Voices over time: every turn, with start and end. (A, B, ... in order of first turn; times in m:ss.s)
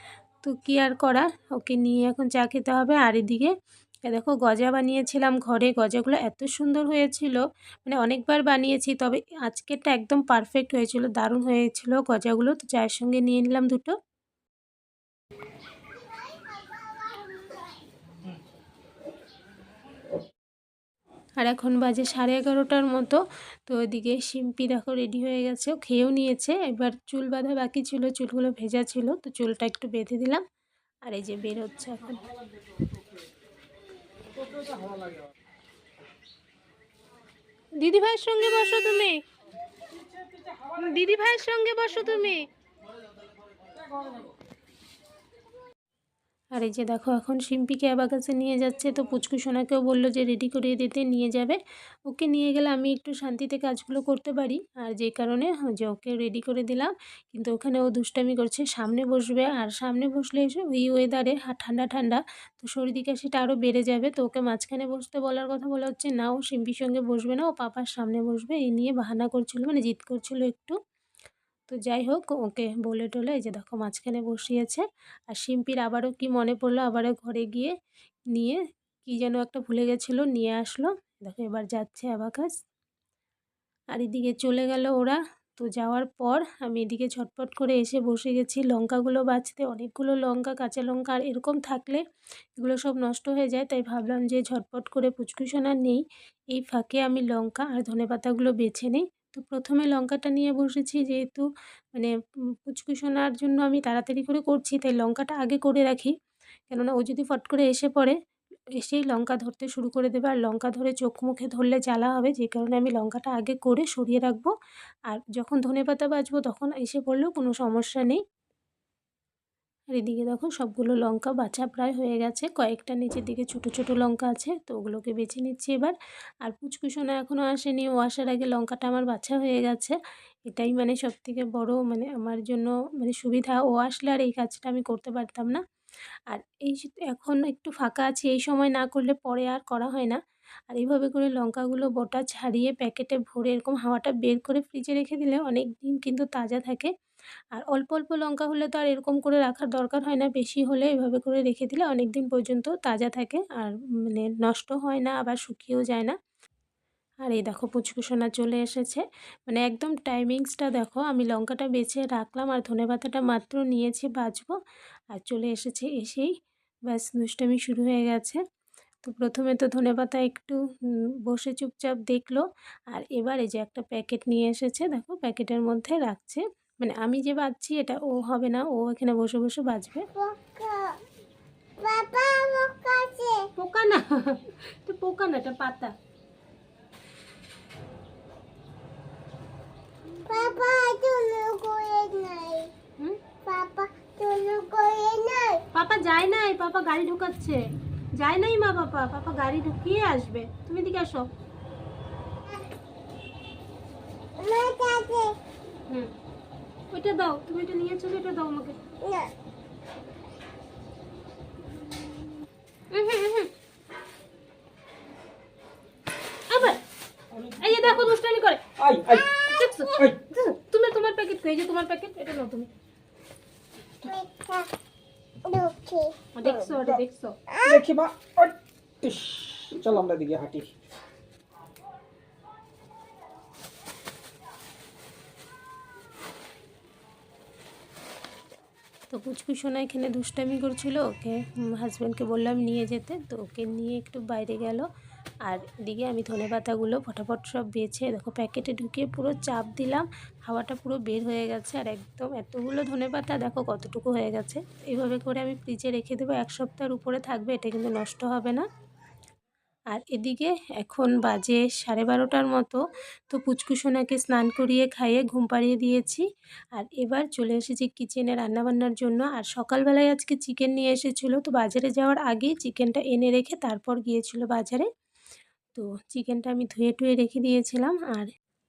0:00.4-0:03.5 A
0:04.0-0:14.0 A
0:15.9-0:17.8 B
0:21.4-0:30.4 A
0:31.0-0:32.2 A
0:34.4-0:35.3 C
0:37.8-0:39.2 A
0:40.4-0:40.8 C
0:40.8-0:42.4 A
0:46.5-1:10.8 A
1:11.7-1:17.7 A
1:18.3-1:22.5 A
1:23.9-1:32.0 A
1:32.6-1:42.1 A
1:42.6-1:46.1 A
1:46.7-1:48.2 A
1:48.8-1:54.5 A
1:55.1-1:58.2 A
1:59.9-2:15.6 A
2:16.3-2:26.9 A
2:27.5-2:36.1 A
2:37.2-2:44.5 A
2:45.1-2:46.3 A
2:46.9-2:48.4 A
2:49.0-3:00.1 A
3:00.1-3:01.0 B
3:01.8-3:03.5 B
3:03.6-3:05.9 A
3:10.3-3:12.7 B
3:13.4-3:15.6 B
3:15.7-3:17.6 A
3:18.2-3:21.3 A
3:24.4-3:25.4 B
3:26.9-3:28.8 A
3:29.0-3:29.3 B
3:32.9-3:33.5 A
3:36.5-3:36.8 A
3:37.3-3:38.1 C
3:37.6-3:38.6 A
3:38.8-3:39.4 C
3:39.1-3:40.0 B
3:39.5-3:42.7 A
3:40.0-3:40.2 C
3:44.0-3:44.7 B
3:45.4-3:46.3 B
3:46.3-3:47.3 A
3:46.4-3:47.0 C
3:47.5-3:47.8 B
3:47.6-3:50.7 C
3:59.1-4:04.8 A
4:05.4-4:18.6 A
4:19.9-4:34.9 A
4:35.8-4:38.3 A